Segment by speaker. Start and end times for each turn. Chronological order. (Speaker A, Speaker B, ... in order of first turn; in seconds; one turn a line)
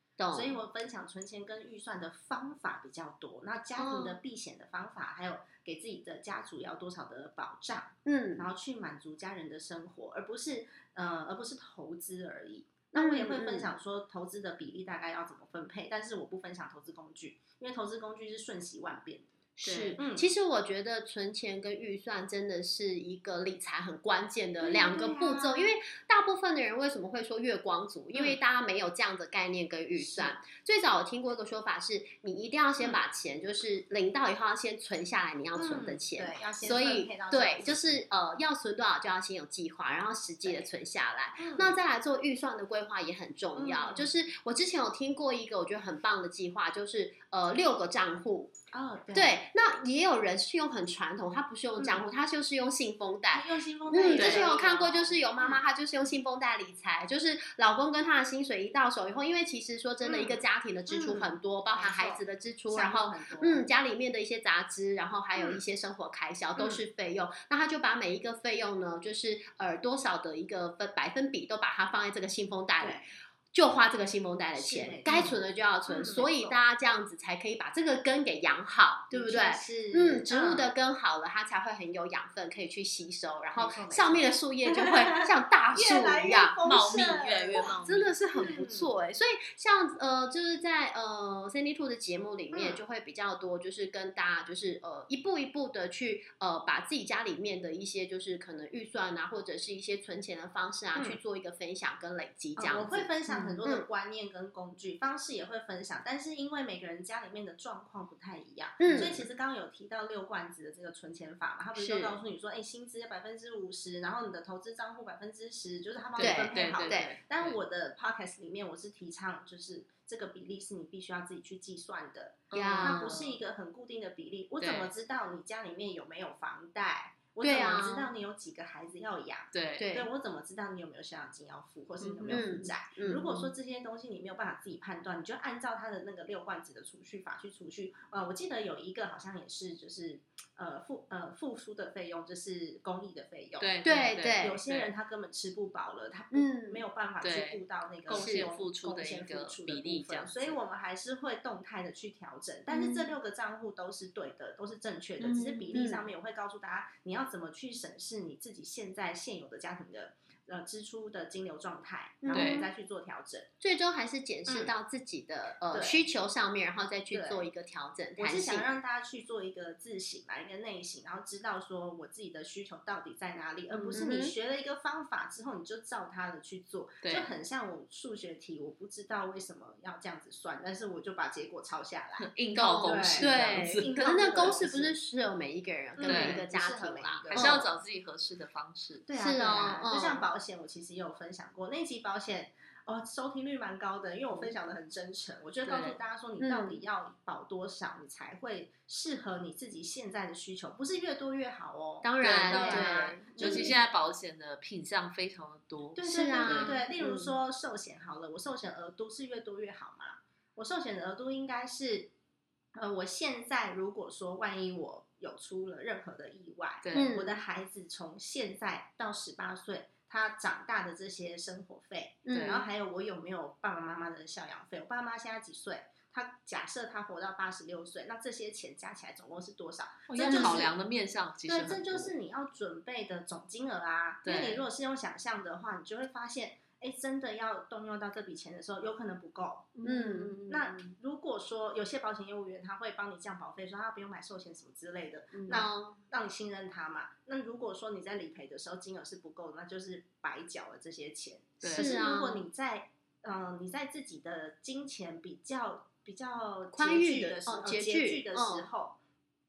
Speaker A: 0.2-0.6
Speaker B: 0.3-19.3
Speaker A: 3.8-4.2
Speaker A: 8.0-8.5
Speaker A: 12.9-13.7
Speaker A: 19.6-48.5
Speaker C: 19.6-20.0
Speaker B: 20.0-20.2
Speaker B: 24.6-25.7
Speaker B: 28.1-28.4
Speaker B: 30.0-30.4
Speaker B: 35.5-38.0
Speaker B: 40.4-40.7
Speaker B: 41.4-41.8
Speaker B: 43.5-44.1
Speaker B: 48.7-49.4
Speaker A: 49.1-103.9
Speaker B: 51.8-52.0
Speaker B: 53.3-55.6
Speaker C: 54.1-54.5
Speaker B: 60.0-63.7
Speaker B: 65.3-65.6
Speaker B: 66.6-66.8
Speaker B: 72.8-73.0
Speaker B: 74.5-76.6
Speaker B: 79.1-80.7
Speaker B: 83.5-88.9
Speaker C: 86.6-88.1
Speaker B: 92.5-92.8
Speaker B: 102.6-143.7
Speaker A: 108.8-109.2
Speaker A: 111.8-112.2
Speaker C: 116.2-117.6
Speaker A: 116.2-117.2
Speaker A: 122.5-123.1
Speaker C: 122.5-123.3
Speaker C: 124.6-124.9
Speaker A: 127.4-128.1
Speaker C: 129.5-129.9
Speaker A: 129.8-130.1
Speaker C: 132.0-132.4
Speaker A: 132.3-133.5
Speaker C: 143.6-144.9
Speaker A: 143.8-144.6
Speaker B: 144.4-163.5
Speaker A: 146.3-146.8
Speaker C: 147.2-150.6
Speaker A: 148.1-148.5
Speaker A: 152.7-153.1
Speaker C: 155.2-155.8
Speaker A: 155.7-156.0
Speaker A: 162.2-162.7
Speaker C: 162.3-162.7
Speaker A: 163.6-168.7
Speaker B: 164.5-164.7
Speaker B: 165.7-166.0
Speaker B: 167.1-167.5
Speaker B: 168.2-182.3
Speaker A: 173.8-174.3
Speaker C: 177.0-177.3
Speaker C: 182.2-183.9
Speaker A: 182.5-187.7
Speaker B: 182.8-185.0
Speaker B: 185.9-187.7
Speaker C: 186.0-186.4
Speaker C: 187.3-189.1
Speaker B: 189.1-203.8
Speaker A: 189.2-190.2
Speaker C: 195.7-196.0
Speaker A: 196.4-196.8
Speaker A: 202.0-203.8
Speaker C: 202.2-206.7
Speaker B: 206.0-212.1
Speaker A: 206.0-207.3
Speaker B: 212.7-230.7
Speaker C: 216.8-217.1
Speaker A: 216.9-217.3
Speaker A: 222.2-222.7
Speaker C: 222.3-222.6
Speaker C: 230.1-232.1
Speaker A: 230.2-230.7
Speaker B: 231.5-239.8
Speaker C: 234.2-234.7
Speaker C: 239.8-240.9
Speaker A: 239.8-240.4
Speaker B: 240.5-259.0
Speaker C: 245.3-245.7
Speaker A: 245.5-246.0
Speaker C: 251.6-251.9
Speaker A: 251.7-252.4
Speaker A: 256.7-258.7